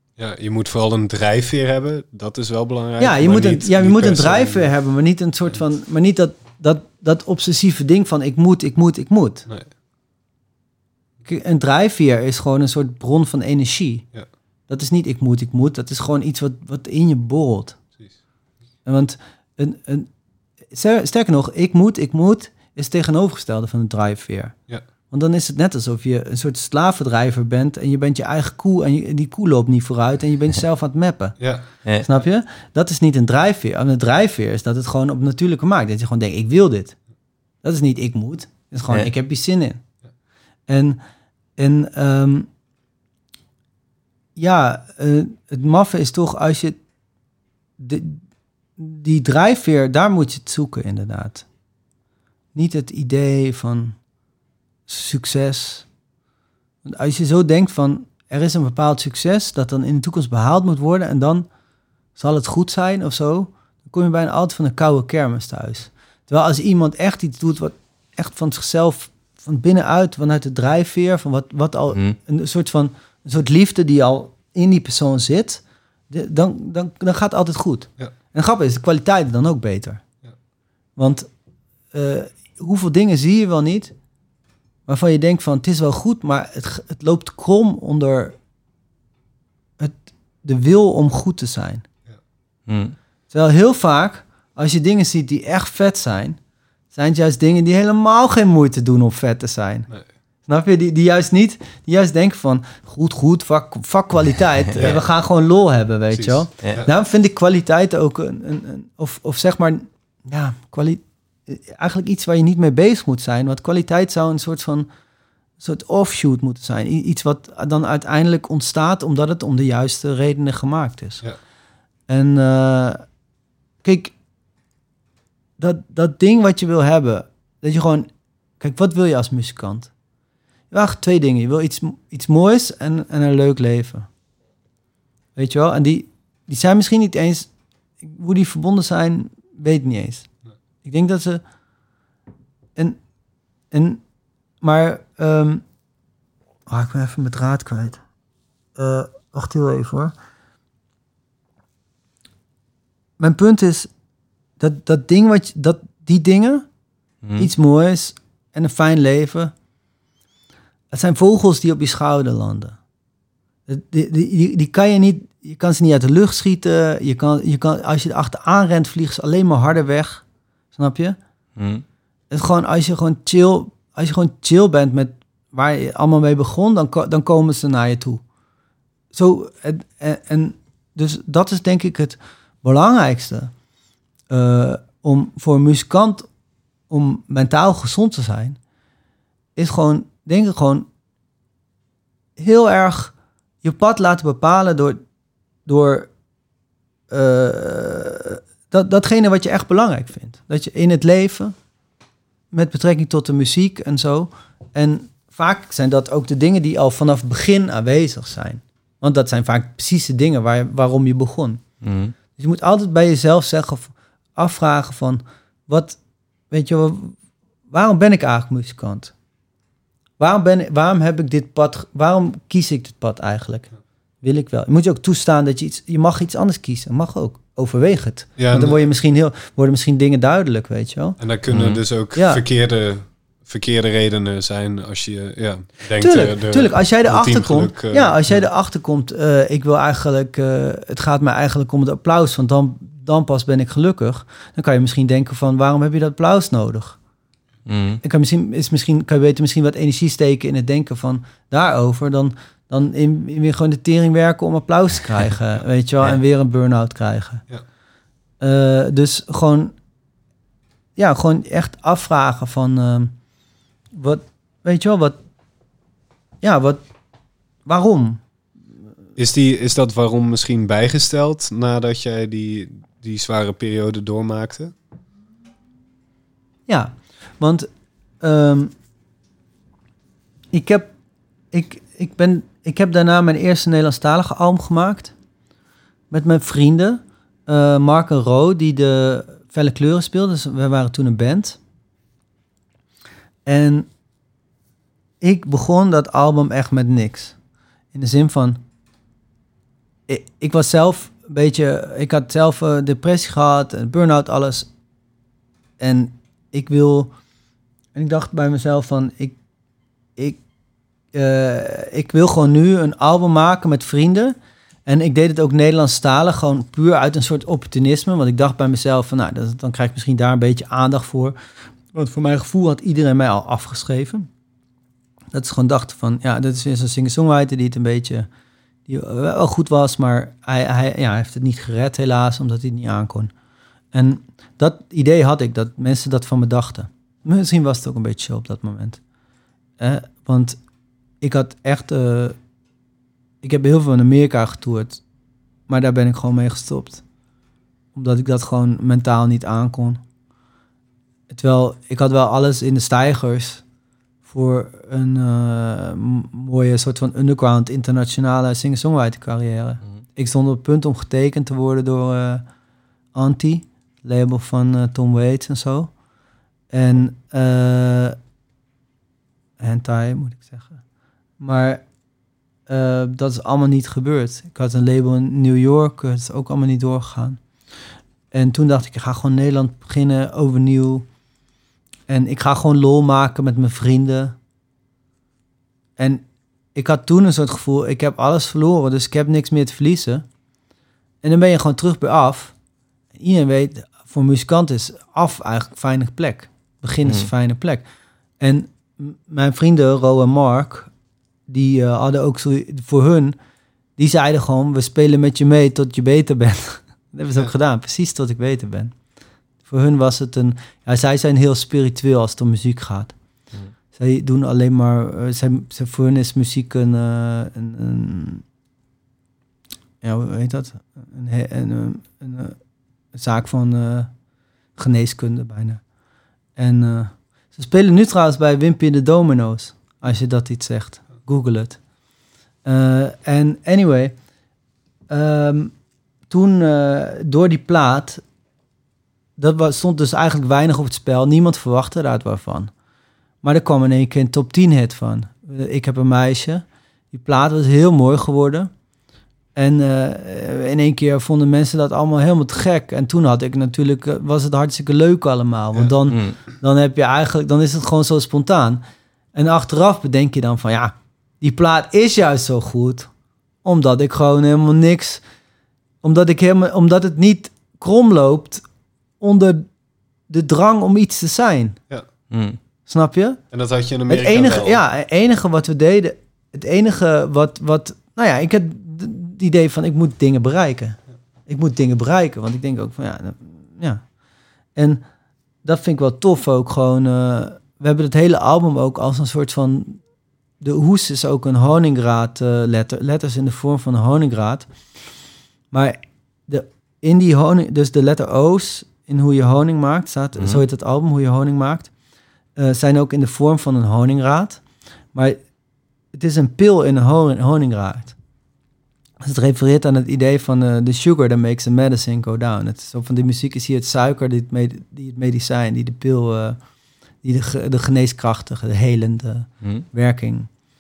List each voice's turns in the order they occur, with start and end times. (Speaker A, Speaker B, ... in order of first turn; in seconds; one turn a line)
Speaker A: 0.2-4.7
Speaker B: 3.0-9.5
Speaker B: 11.2-14.1
Speaker B: 14.7-17.8
Speaker B: 18.9-20.1
Speaker B: 20.7-24.5
Speaker B: 25.1-31.4
Speaker A: 31.4-31.7
Speaker B: 32.0-37.0
Speaker B: 37.6-39.8
Speaker B: 40.7-41.0
Speaker B: 41.6-42.5
Speaker B: 44.4-46.8
Speaker B: 47.8-48.2
Speaker B: 48.8-51.5
Speaker B: 52.5-54.0
Speaker B: 54.9-55.9
Speaker B: 56.8-61.5
Speaker B: 62.1-80.0
Speaker B: 81.0-81.3
Speaker B: 81.9-83.9
Speaker B: 84.9-88.4
Speaker B: 89.8-91.8
Speaker C: 92.7-93.0
Speaker B: 93.3-96.4
Speaker B: 96.9-99.9
Speaker B: 100.5-114.9
Speaker A: 106.1-106.9
Speaker B: 115.6-121.2
Speaker B: 122.1-123.0
Speaker B: 123.8-124.1
Speaker B: 125.6-128.1
Speaker B: 128.6-129.9
Speaker B: 130.7-134.1
Speaker B: 135.4-137.5
Speaker B: 138.0-140.3
Speaker B: 140.8-141.4
Speaker B: 143.7-144.0
Speaker B: 144.6-145.7
Speaker B: 146.7-148.0
Speaker B: 148.8-150.1
Speaker B: 153.2-153.9
Speaker B: 154.6-156.7
Speaker C: 157.2-157.5
Speaker B: 157.4-159.5
Speaker B: 160.9-162.8
Speaker B: 163.7-171.2
Speaker C: 171.6-171.8
Speaker B: 172.3-178.2
Speaker B: 179.1-183.5
Speaker B: 184.3-186.3
Speaker B: 186.9-188.6
Speaker B: 189.6-190.9
Speaker B: 192.4-195.0
Speaker B: 195.7-196.1
Speaker B: 197.1-201.6
Speaker B: 202.5-211.6
Speaker C: 211.8-212.2
Speaker B: 212.4-216.0
Speaker B: 216.5-217.2
Speaker B: 217.7-219.1
Speaker B: 220.2-223.7
Speaker B: 224.2-231.2
Speaker A: 228.4-228.8
Speaker A: 231.2-238.4
Speaker C: 231.5-231.8
Speaker B: 232.1-232.4
Speaker B: 236.0-247.0
Speaker C: 247.7-248.0
Speaker B: 248.0-257.4
Speaker B: 258.4-259.7
Speaker B: 261.0-263.1
Speaker B: 263.9-265.2
Speaker B: 266.4-266.8
Speaker B: 267.7-268.2
Speaker A: 269.2-274.7
Speaker B: 276.7-277.7
Speaker B: 278.2-278.7
Speaker B: 280.5-280.9
Speaker B: 281.5-285.1
Speaker B: 286.1-291.6
Speaker B: 293.5-293.9
Speaker B: 295.2-297.4
Speaker B: 297.9-298.6
Speaker B: 300.1-304.7
Speaker B: 305.8-307.1
Speaker B: 307.9-309.4
Speaker B: 311.1-321.4
Speaker B: 321.9-324.3
Speaker B: 325.3-328.3
Speaker B: 328.9-333.3
Speaker B: 333.9-339.0
Speaker B: 339.8-340.6
Speaker B: 341.2-342.4
Speaker B: 343.4-345.0
Speaker B: 345.7-347.0
Speaker B: 347.9-350.0
Speaker B: 351.3-353.6
Speaker B: 354.3-362.4
Speaker B: 363.1-365.9
Speaker B: 366.7-368.2
Speaker B: 369.6-370.8
Speaker B: 371.4-371.8
Speaker B: 372.7-377.4
Speaker B: 378.3-381.1
Speaker B: 382.1-384.4
Speaker B: 386.0-386.2
Speaker B: 386.8-390.2
Speaker B: 391.2-392.5
Speaker B: 393.2-397.8
Speaker C: 397.1-397.3
Speaker B: 398.4-400.9
Speaker B: 401.5-403.4
Speaker B: 404.0-408.9
Speaker B: 409.6-413.1
Speaker B: 413.9-418.4
Speaker B: 420.0-422.6
Speaker B: 423.1-424.1
Speaker B: 424.8-425.8
Speaker B: 426.6-431.8
Speaker B: 432.6-434.1
Speaker B: 435.1-435.7
Speaker B: 436.3-438.2
Speaker B: 439.4-442.7
Speaker B: 443.4-448.7
Speaker B: 449.6-458.8
Speaker C: 456.1-456.4
Speaker B: 459.4-463.1
Speaker B: 463.6-465.2
Speaker B: 466.0-468.6
Speaker B: 469.2-469.7
Speaker B: 470.3-471.8
Speaker C: 472.3-472.6
Speaker B: 472.9-473.4
Speaker A: 473.5-474.8
Speaker B: 474.1-484.0
Speaker B: 484.8-485.0
Speaker B: 485.6-490.0
Speaker B: 490.6-494.7
Speaker B: 495.7-501.9
Speaker C: 500.4-500.6
Speaker B: 502.6-504.6
Speaker B: 505.1-505.4
Speaker B: 506.1-508.1
Speaker B: 509.2-516.6
Speaker B: 517.2-520.5